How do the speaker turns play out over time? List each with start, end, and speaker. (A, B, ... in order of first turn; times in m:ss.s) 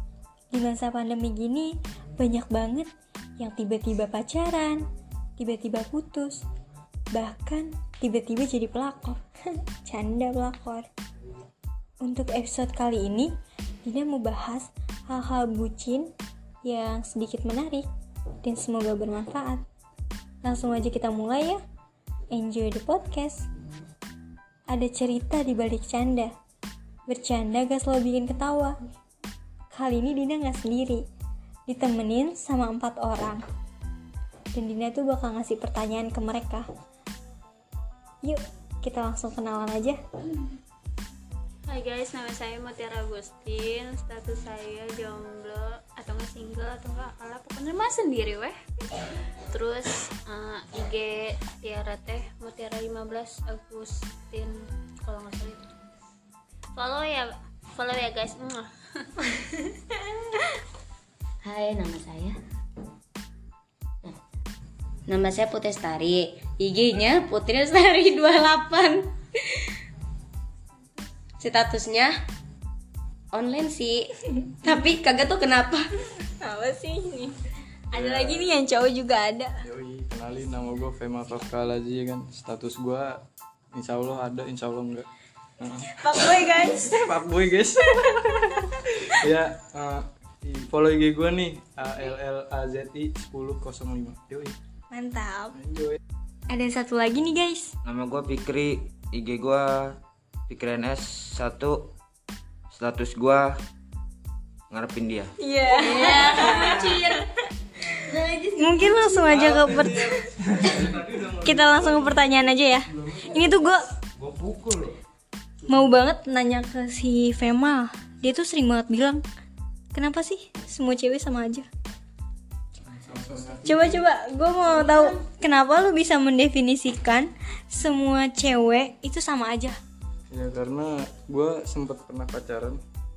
0:00.5-0:06.4 A
0:07.1-0:09.2 A
0:09.8-0:10.9 A
0:12.0-0:13.3 A
0:13.8-0:16.1 A
0:16.6-0:17.8 A
0:18.4-0:19.6 A
0:20.4-0:21.6 A
0:22.3-0:23.5 A
0:24.7-0:26.3 A
0:27.1-0:28.8 A
0:29.7-0:31.0 A
0:31.7-0:33.4 A
0:34.5-0:36.7 A
0:38.2-0:40.0 A
0:41.6-0:48.5 B
0:49.5-0:55.7 B
0:56.7-0:59.1 B
1:01.4-1:02.4 C
1:05.0-1:09.6 C
1:11.4-1:12.1 C
1:13.3-1:14.1 C
1:14.6-1:15.9 C
1:16.3-1:17.3 A
1:17.9-1:19.6 A
1:17.9-1:18.6 D
1:19.6-1:23.2 D
1:23.7-1:25.1 D
1:25.6-1:25.9 D
1:26.0-1:27.1 A
1:26.9-1:34.6 D
1:27.9-1:28.6 A
1:34.9-1:35.6 A
1:35.5-1:36.0 D
1:36.5-1:37.7 A
1:37.8-1:40.0 E
1:40.5-1:41.9 E
1:42.7-1:43.5 E
1:44.7-1:45.3 E
1:45.4-1:47.2 A
1:45.7-1:47.2 C
1:48.0-1:49.0 C
1:48.6-1:50.2 A
1:49.2-1:53.7 D
1:51.4-1:53.8 A
1:54.2-1:55.0 E
1:55.6-1:59.2 A
1:59.9-2:01.7 A
2:02.8-2:04.0 D
2:03.6-2:09.8 A
2:10.3-2:12.8 D